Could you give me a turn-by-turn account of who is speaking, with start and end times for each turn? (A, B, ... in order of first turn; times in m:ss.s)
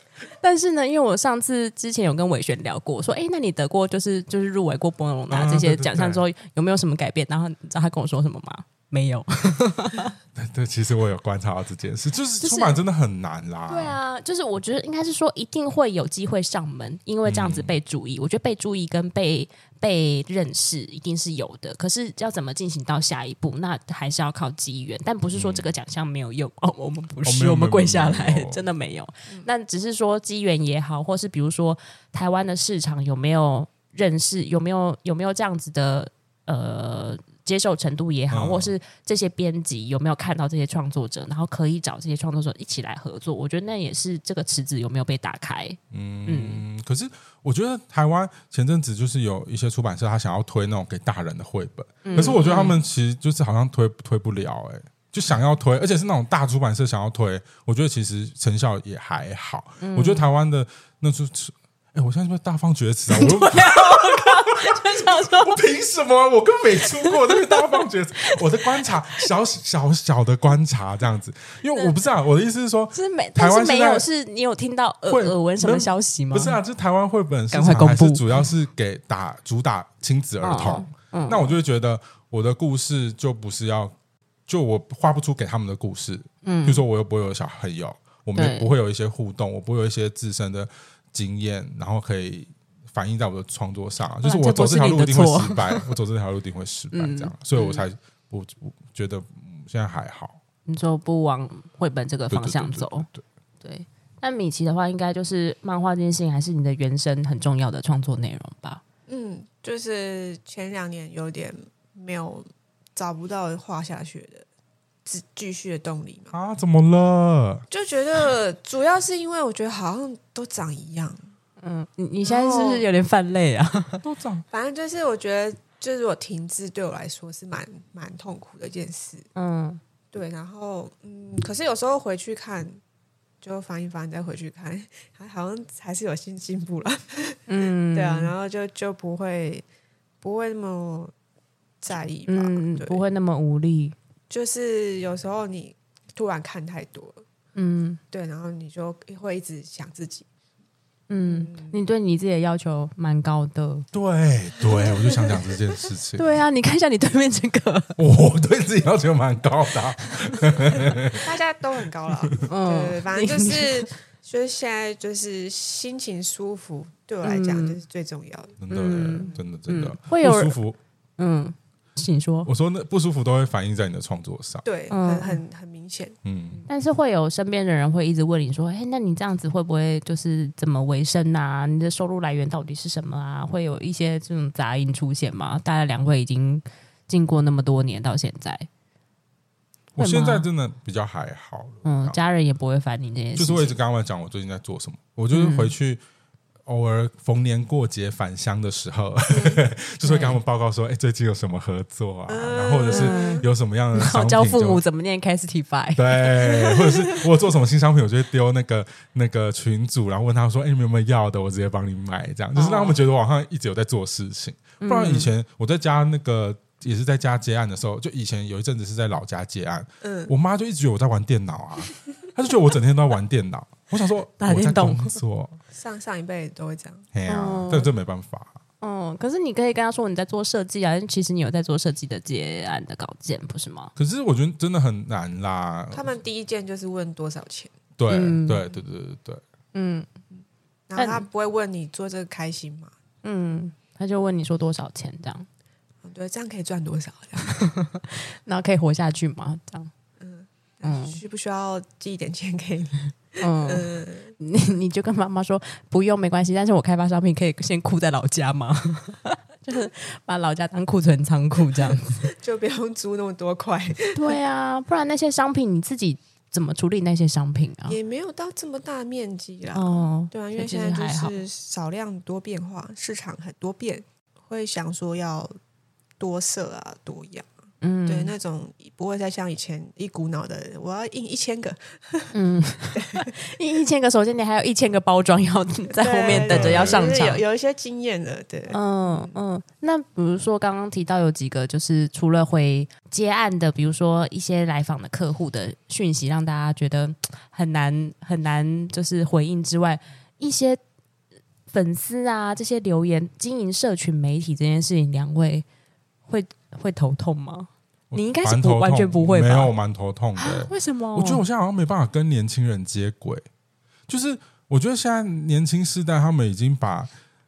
0:00.4-0:10.1 A
0:05.3-0:06.2 B
0:10.3-0:14.0 B
0:12.4-0:12.8 A
0:13.7-0:46.6 A
0:17.2-0:17.8 B
0:25.3-0:25.7 B
0:27.2-0:28.6 B
0:38.3-0:38.7 B
0:45.9-1:14.0 B
0:52.0-0:52.8 A
0:52.1-0:52.4 C
0:59.8-1:00.3 A
1:03.1-1:05.6 A
1:07.1-1:07.5 A
1:12.9-1:16.6 A
1:15.1-1:23.9 B
1:17.5-1:18.2 A
1:20.4-1:21.5 A
1:24.5-1:40.4 B
1:26.4-1:26.8 A
1:28.4-1:28.7 A
1:34.2-1:35.9 A
1:36.9-1:37.8 A
1:40.6-1:43.1 A
1:42.3-1:43.2 B
1:43.6-1:48.8 A
1:49.1-1:54.4 C
1:55.0-1:56.3 C
1:56.3-1:57.6 B
1:57.7-2:01.3 C
2:01.6-2:04.0 A
2:02.2-2:02.9 C
2:04.0-2:04.4 B
2:04.5-2:09.3 C
2:09.3-2:09.8 A
2:10.1-2:12.8 C
2:13.4-2:19.6 C
2:17.5-2:18.3 A
2:20.2-2:21.1 C
2:21.8-2:23.0 C
2:22.2-2:24.0 A
2:24.3-2:27.2 C
2:27.5-2:28.0 A
2:28.1-2:30.2 C
2:31.1-2:33.9 A
2:31.2-2:31.8 C
2:33.9-2:36.2 B
2:36.2-2:38.0 A
2:38.0-2:41.2 B
2:41.2-2:48.6 C
2:42.5-2:43.9 A
2:47.2-2:47.8 A
2:48.6-2:50.8 B
2:48.7-2:50.6 A
2:51.2-2:52.5 A
2:52.4-2:54.6 B
2:54.6-2:56.2 C
2:54.9-2:55.4 A
2:56.2-2:56.6 B
2:56.7-3:08.7 A
3:09.9-3:12.2 B
3:10.0-3:10.5 A
3:11.8-3:13.8 A
3:13.4-3:16.0 B
3:15.3-3:15.7 A
3:16.6-3:24.8 B
3:19.3-3:19.6 C
3:20.0-3:20.4 A
3:22.3-3:23.4 C
3:22.9-3:26.5 A
3:26.0-3:45.6 B
3:32.6-3:33.0 A
3:34.8-3:35.3 A
3:40.0-3:40.3 C
3:44.4-3:45.2 A
3:45.7-3:47.1 C
3:47.1-3:48.6 B
3:47.3-3:47.9 A
3:48.8-3:53.9 A
3:54.0-3:56.2 B
3:55.9-3:57.7 C
3:58.0-3:59.4 B
3:58.1-3:58.6 A
3:59.7-4:00.1 A
4:00.9-4:02.9 C
4:01.0-4:01.2 A
4:03.2-4:05.5 A
4:06.0-4:07.6 C
4:07.4-4:09.9 A
4:10.2-4:14.3 C
4:10.8-4:11.2 A
4:13.4-4:22.3 A
4:21.9-4:24.4 C
4:24.1-4:28.0 A
4:27.9-4:35.5 C
4:29.7-4:31.4 A
4:36.2-4:37.5 C
4:37.8-4:38.3 A
4:38.0-4:42.3 C
4:42.3-4:47.4 A
4:42.9-4:43.3 C
4:46.0-4:49.4 C
4:46.3-4:47.0 B
4:48.7-5:00.8 A
5:01.7-5:05.6 A
5:06.3-5:09.7 A
5:08.1-5:13.4 B
5:10.4-5:11.4 A
5:14.1-5:17.1 B